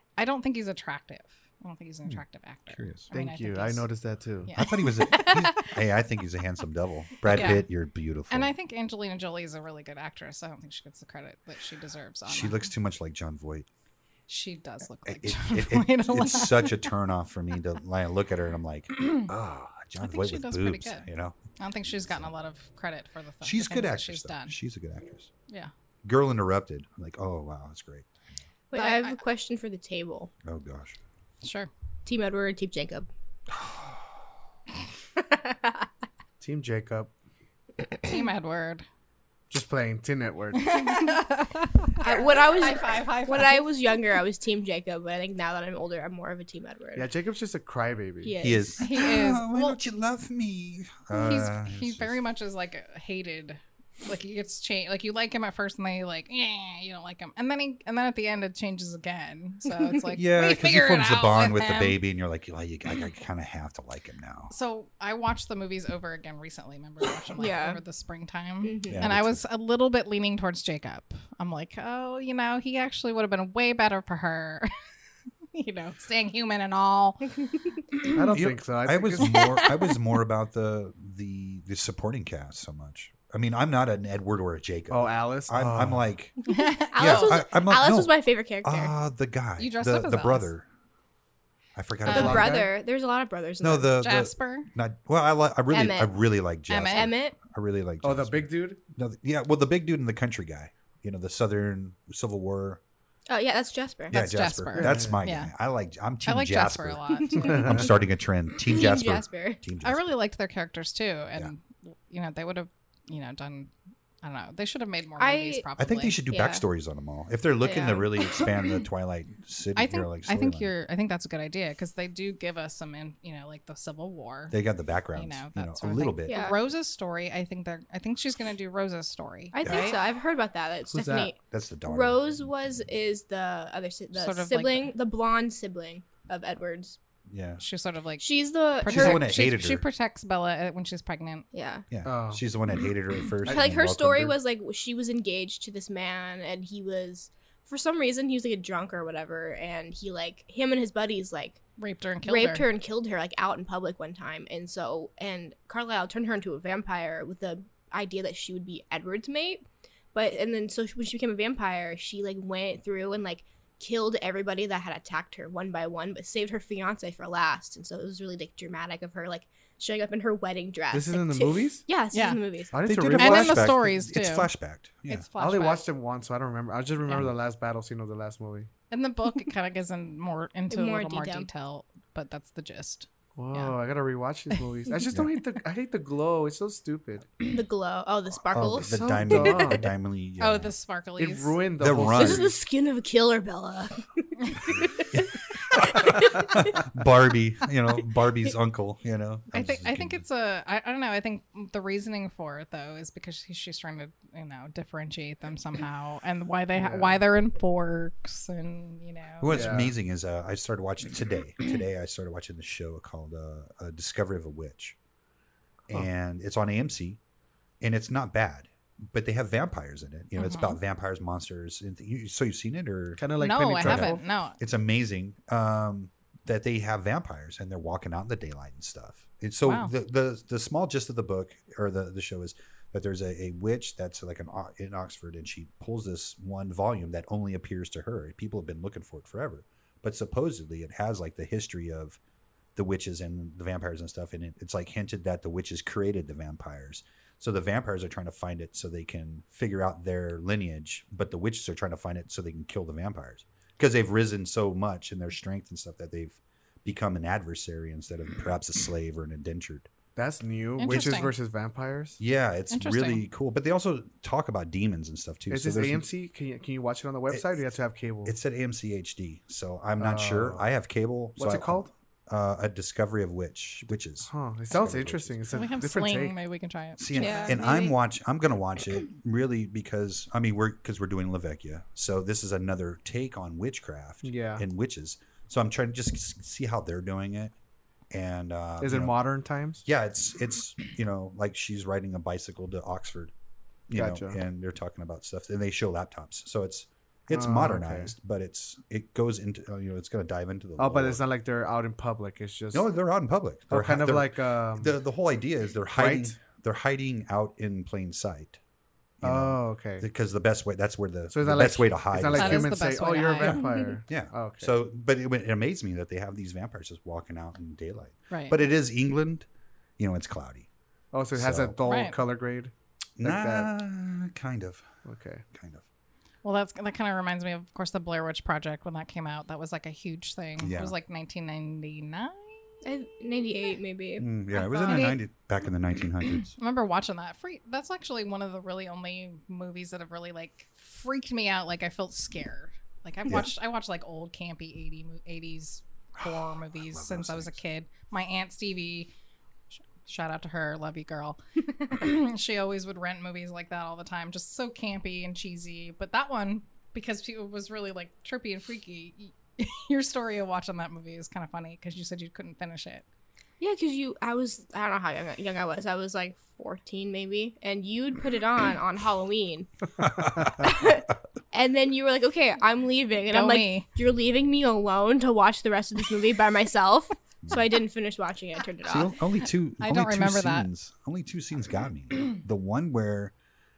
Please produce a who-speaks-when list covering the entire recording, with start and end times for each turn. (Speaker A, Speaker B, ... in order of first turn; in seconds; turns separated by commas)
Speaker A: 0.2-3.9, Speaker B: 2.7-3.1, Speaker C: 3.1-4.5, Speaker A: 4.5-5.7, Speaker B: 4.5-8.5, Speaker A: 7.2-7.7, Speaker A: 8.3-12.6, Speaker B: 12.2-13.7, Speaker A: 14.3-16.9, Speaker B: 15.1-22.3, Speaker A: 18.9-19.3, Speaker A: 20.0-24.6, Speaker B: 23.4-25.3, Speaker B: 26.0-28.1, Speaker D: 28.7-30.3, Speaker A: 28.7-29.2, Speaker B: 30.4-31.0, Speaker A: 31.4-31.7, Speaker D: 32.0-33.1, Speaker B: 33.5-34.2, Speaker D: 35.2-35.9, Speaker C: 36.4-37.1, Speaker A: 38.0-38.8, Speaker C: 39.5-40.9, Speaker A: 40.6-43.7, Speaker D: 42.0-47.1, Speaker C: 47.0-48.4, Speaker D: 48.2-49.0, Speaker B: 48.4-52.1, Speaker A: 48.8-49.8, Speaker A: 51.1-62.0, Speaker B: 60.1-64.5, Speaker A: 64.5-74.7, Speaker D: 67.4-67.8, Speaker D: 68.6-69.1, Speaker B: 68.9-69.4, Speaker A: 75.5-78.3, Speaker C: 78.1-79.4, Speaker B: 78.3-86.3, Speaker A: 79.2-80.0, Speaker C: 84.9-86.0, Speaker A: 86.5-87.4, Speaker D: 86.5-88.9, Speaker B: 86.9-88.1, Speaker B: 88.6-90.7, Speaker A: 89.6-90.5, Speaker B: 91.7-92.7, Speaker D: 92.0-93.9, Speaker A: 92.1-92.4, Speaker C: 92.1-92.6, Speaker B: 93.6-102.8, Speaker A: 94.0-94.7, Speaker D: 95.7-96.1, Speaker A: 96.7-97.1, Speaker D: 96.9-97.3, Speaker C: 98.0-98.8, Speaker D: 103.3-104.1, Speaker A: 104.1-105.5, Speaker B: 104.1-110.2, Speaker C: 104.8-105.2, Speaker A: 106.2-107.6, Speaker D: 107.1-107.9, Speaker C: 107.4-107.9, Speaker D: 108.6-109.6, Speaker A: 109.8-113.7, Speaker A: 114.2-116.2, Speaker D: 115.2-115.7, Speaker B: 115.8-120.7, Speaker D: 116.3-116.6, Speaker D: 117.6-118.5, Speaker A: 119.8-124.6, Speaker B: 124.5-126.5, Speaker A: 125.1-130.0, Speaker D: 126.3-126.6, Speaker D: 129.5-137.0, Speaker B: 129.6-129.9, Speaker B: 130.9-132.5, Speaker A: 134.1-134.9, Speaker B: 137.3-137.6, Speaker A: 137.6-141.4, Speaker D: 138.2-139.2, Speaker B: 138.8-139.8, Speaker D: 141.5-141.8, Speaker B: 141.9-144.4, Speaker C: 142.1-142.4, Speaker D: 143.4-151.6, Speaker A: 151.8-152.7, Speaker D: 152.2-159.6, Speaker D: 160.1-172.7, Speaker C: 170.9-171.8, Speaker A: 172.1-172.4, Speaker C: 172.7-173.8, Speaker B: 172.8-175.3, Speaker A: 173.2-174.5, Speaker A: 175.1-175.9, Speaker C: 175.4-178.7, Speaker A: 178.9-183.8, Speaker D: 180.7-181.5, Speaker C: 183.3-187.3, Speaker D: 187.5-189.8, Speaker B: 188.4-190.7, Speaker C: 188.8-189.9, Speaker A: 190.4-191.6, Speaker C: 191.2-192.5, Speaker B: 191.8-192.5, Speaker D: 192.0-196.6, Speaker B: 195.1-200.2, Speaker A: 199.5-209.7, Speaker C: 206.8-207.2, Speaker B: 209.4-215.0, Speaker C: 209.5-209.9, Speaker B: 215.9-217.2, Speaker B: 217.8-223.2, Speaker A: 220.4-220.8, Speaker C: 223.2-224.2, Speaker A: 223.4-224.6, Speaker B: 223.8-242.2, Speaker A: 229.6-229.9, Speaker B: 242.8-259.9, Speaker C: 260.1-262.2, Speaker A: 260.8-261.3, Speaker B: 262.2-266.1, Speaker A: 262.7-263.2, Speaker C: 265.5-268.4, Speaker B: 267.3-267.6, Speaker B: 268.2-275.4, Speaker C: 270.0-270.6, Speaker C: 271.4-271.9, Speaker C: 274.2-276.4, Speaker A: 275.5-277.9, Speaker B: 277.0-287.5, Speaker D: 277.1-277.9, Speaker C: 284.2-284.6, Speaker B: 288.1-289.2, Speaker C: 288.8-289.8, Speaker B: 289.8-293.3, Speaker B: 293.9-301.2, Speaker C: 293.9-294.4, Speaker C: 297.3-298.1, Speaker C: 300.8-302.9, Speaker B: 302.7-308.6, Speaker C: 303.7-305.0, Speaker C: 305.9-306.4, Speaker B: 309.2-312.8, Speaker C: 309.2-310.1, Speaker C: 311.3-314.7, Speaker A: 312.3-313.6, Speaker D: 313.5-314.0, Speaker B: 314.1-319.5, Speaker A: 318.3-318.6, Speaker B: 320.0-320.7, Speaker C: 321.1-323.7, Speaker B: 321.3-321.8, Speaker A: 321.8-322.2, Speaker B: 323.2-324.9, Speaker C: 325.1-325.4, Speaker B: 325.5-325.8, Speaker A: 326.4-332.7, Speaker B: 330.6-330.9, Speaker D: 332.8-335.1, Speaker B: 334.2-336.5, Speaker A: 334.6-335.2, Speaker A: 336.3-349.1, Speaker B: 346.2-347.6, Speaker A: 350.0-363.0, Speaker D: 363.6-369.7, Speaker B: 370.0-370.9, Speaker D: 370.6-379.2, Speaker A: 373.3-373.9, Speaker B: 377.4-377.7, Speaker B: 378.8-383.3, Speaker A: 379.8-380.7